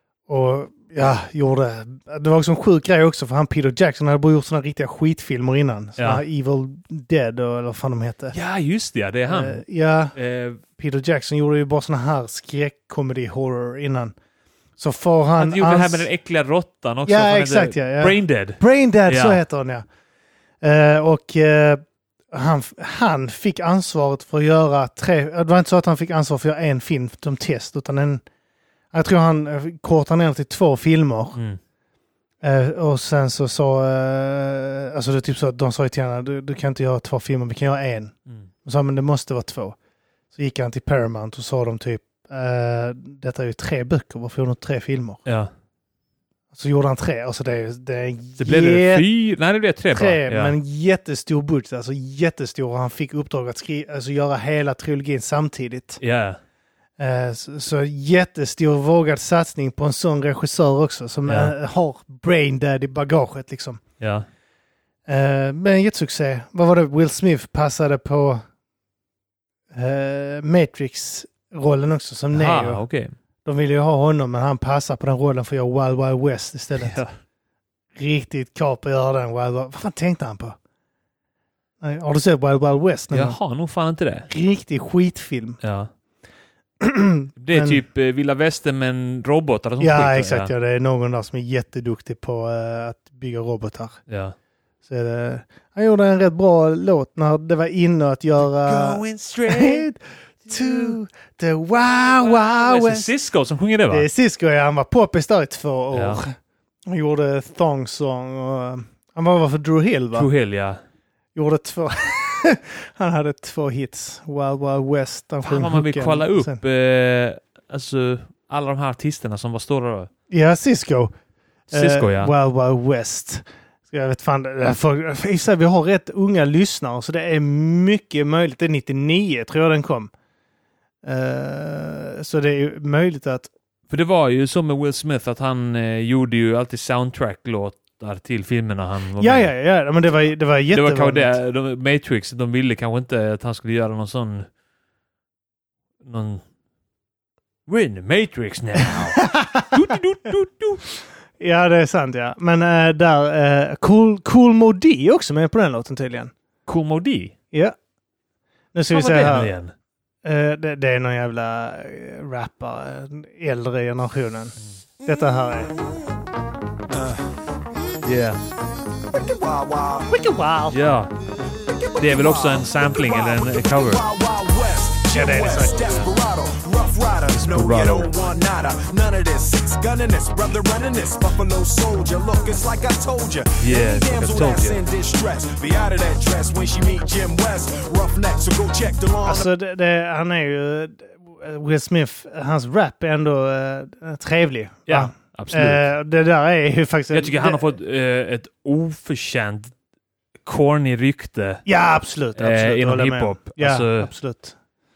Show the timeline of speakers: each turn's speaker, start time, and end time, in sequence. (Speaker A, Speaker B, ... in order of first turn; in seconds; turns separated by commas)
Speaker A: 0.3-8.3, Speaker B: 6.0-6.2, Speaker B: 8.3-9.6, Speaker A: 9.3-14.1, Speaker B: 10.1-10.6, Speaker A: 14.8-16.1, Speaker B: 15.4-19.4, Speaker A: 17.1-19.8, Speaker A: 20.6-28.2, Speaker A: 28.9-31.4, Speaker B: 31.3-31.6, Speaker A: 32.4-39.8, Speaker A: 40.3-45.2, Speaker B: 45.2-45.5, Speaker A: 46.5-49.1, Speaker B: 48.4-50.5, Speaker A: 49.9-56.0, Speaker B: 56.0-56.4, Speaker A: 57.0-63.8, Speaker B: 61.3-61.5, Speaker B: 64.0-64.3, Speaker A: 65.1-68.4, Speaker A: 69.7-72.8, Speaker B: 72.3-73.1, Speaker A: 73.4-77.0, Speaker B: 76.8-77.1, Speaker A: 78.0-80.6, Speaker A: 81.8-83.4, Speaker B: 83.1-84.3, Speaker A: 84.3-85.6, Speaker B: 85.6-85.9, Speaker A: 86.8-87.8, Speaker B: 87.4-90.5, Speaker A: 89.8-94.0, Speaker B: 94.1-94.3, Speaker A: 94.8-103.1, Speaker B: 98.4-99.9, Speaker B: 100.4-101.0, Speaker B: 102.1-104.1, Speaker A: 103.9-106.3, Speaker B: 105.9-106.2, Speaker A: 106.8-110.3, Speaker B: 110.1-110.8, Speaker A: 111.3-116.6, Speaker B: 115.4-120.1, Speaker A: 120.3-121.1, Speaker B: 121.7-122.3, Speaker A: 121.7-130.1, Speaker A: 131.0-133.5, Speaker B: 133.9-139.5, Speaker A: 139.2-141.4, Speaker B: 140.7-144.5, Speaker B: 146.0-146.4, Speaker B: 147.7-150.8, Speaker A: 149.0-149.7, Speaker A: 151.4-156.3, Speaker B: 156.7-157.3, Speaker A: 158.7-159.5, Speaker B: 158.9-159.7, Speaker A: 160.2-165.7, Speaker C: 166.9-167.3, Speaker B: 168.0-168.4, Speaker C: 169.0-170.1, Speaker A: 170.1-170.8, Speaker B: 170.7-171.1, Speaker C: 171.5-189.5, Speaker B: 172.0-174.0, Speaker A: 175.1-175.8, Speaker B: 177.3-178.1, Speaker B: 183.6-184.8, Speaker A: 189.2-197.7, Speaker B: 194.9-195.9, Speaker B: 197.1-199.7, Speaker B: 200.4-201.6, Speaker A: 201.6-204.6, Speaker B: 202.3-204.1